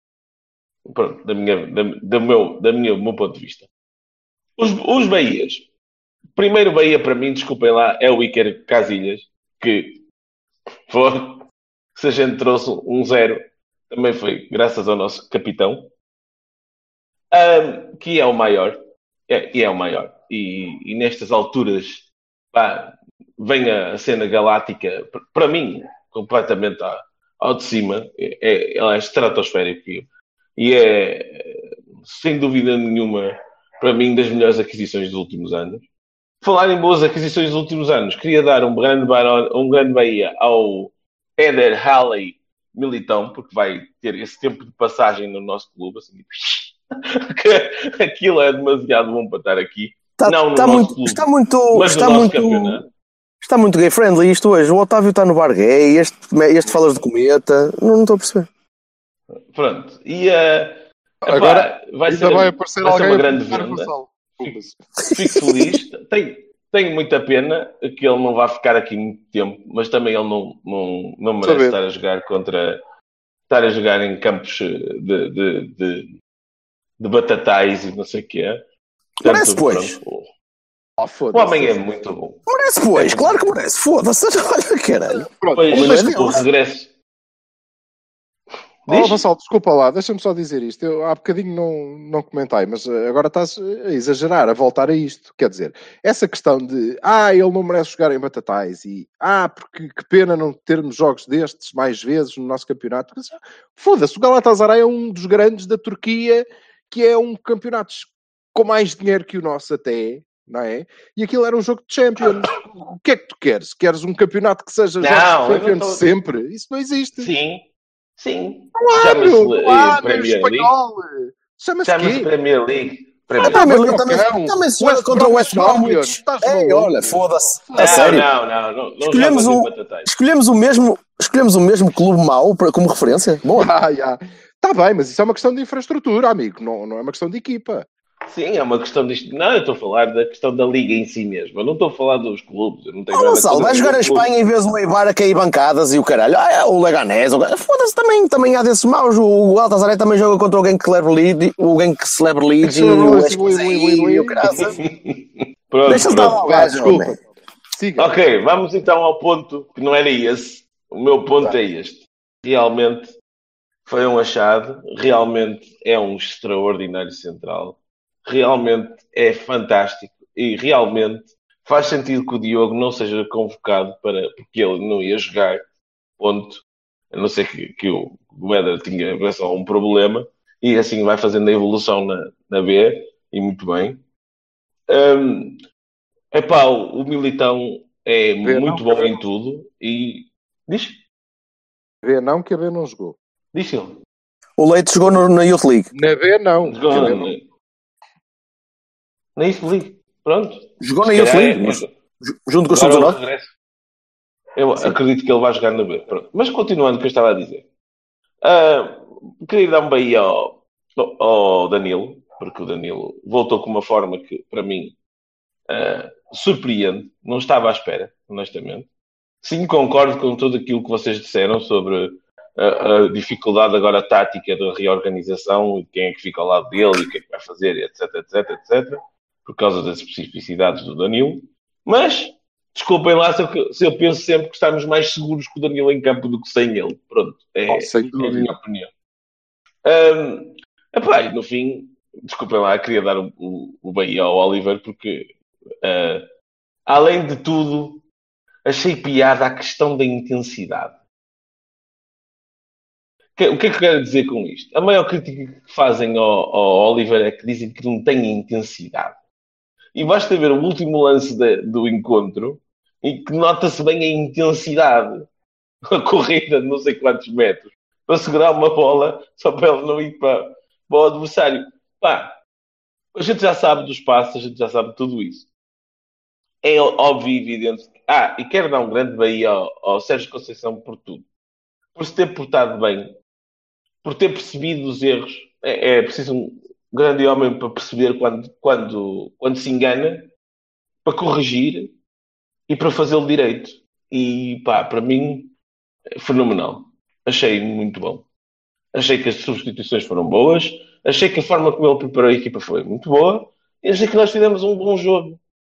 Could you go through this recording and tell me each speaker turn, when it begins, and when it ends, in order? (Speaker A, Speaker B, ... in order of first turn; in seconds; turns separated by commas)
Speaker A: 0.8-3.7, Speaker A: 4.6-5.7, Speaker A: 6.3-10.0, Speaker A: 10.9-11.4, Speaker A: 11.9-15.9, Speaker A: 17.3-18.8, Speaker A: 19.3-35.8, Speaker A: 36.4-52.9, Speaker B: 50.2-52.8, Speaker B: 53.4-58.5, Speaker A: 59.5-64.5, Speaker C: 61.2-64.8, Speaker A: 65.1-72.8, Speaker B: 65.5-65.7, Speaker C: 71.4-71.8, Speaker A: 73.5-76.1, Speaker A: 77.0-78.6, Speaker B: 79.2-80.0, Speaker A: 79.2-80.3, Speaker C: 81.0-81.8, Speaker A: 81.3-82.4, Speaker B: 82.5-86.4, Speaker A: 82.9-83.4, Speaker C: 85.2-86.4, Speaker A: 85.5-86.9, Speaker A: 88.8-89.2, Speaker C: 88.9-117.3, Speaker A: 115.0-116.1, Speaker A: 117.2-120.7, Speaker C: 118.7-122.3, Speaker A: 121.8-123.7, Speaker C: 123.4-128.2, Speaker B: 123.4-128.3, Speaker A: 127.8-130.1, Speaker B: 129.0-133.7, Speaker C: 133.5-137.8, Speaker A: 138.3-144.3, Speaker B: 143.1-154.7, Speaker C: 152.6-154.7, Speaker A: 154.5-156.4, Speaker B: 155.9-157.2, Speaker C: 156.4-158.1, Speaker A: 158.0-163.1, Speaker A: 163.8-175.6, Speaker A: 176.2-184.0, Speaker A: 184.9-185.6, Speaker A: 186.3-191.0, Speaker C: 188.4-189.2, Speaker C: 192.0-193.2, Speaker A: 193.5-194.0, Speaker B: 194.6-195.9, Speaker C: 195.9-197.3, Speaker A: 196.7-197.4, Speaker A: 199.3-201.9, Speaker B: 200.8-203.2, Speaker A: 202.7-203.5, Speaker A: 204.6-207.7, Speaker A: 208.4-214.9, Speaker A: 215.7-218.9, Speaker A: 219.4-238.9, Speaker C: 237.7-238.5, Speaker A: 239.8-245.3, Speaker A: 245.8-246.2, Speaker A: 246.9-248.0, Speaker A: 248.6-251.0, Speaker A: 253.3-259.2, Speaker A: 259.9-265.2, Speaker A: 265.9-272.3, Speaker A: 273.1-275.5, Speaker A: 276.6-281.2, Speaker A: 281.9-283.1, Speaker A: 284.0-290.3, Speaker A: 291.0-291.9, Speaker A: 292.7-295.5, Speaker A: 296.2-298.2, Speaker A: 298.9-305.4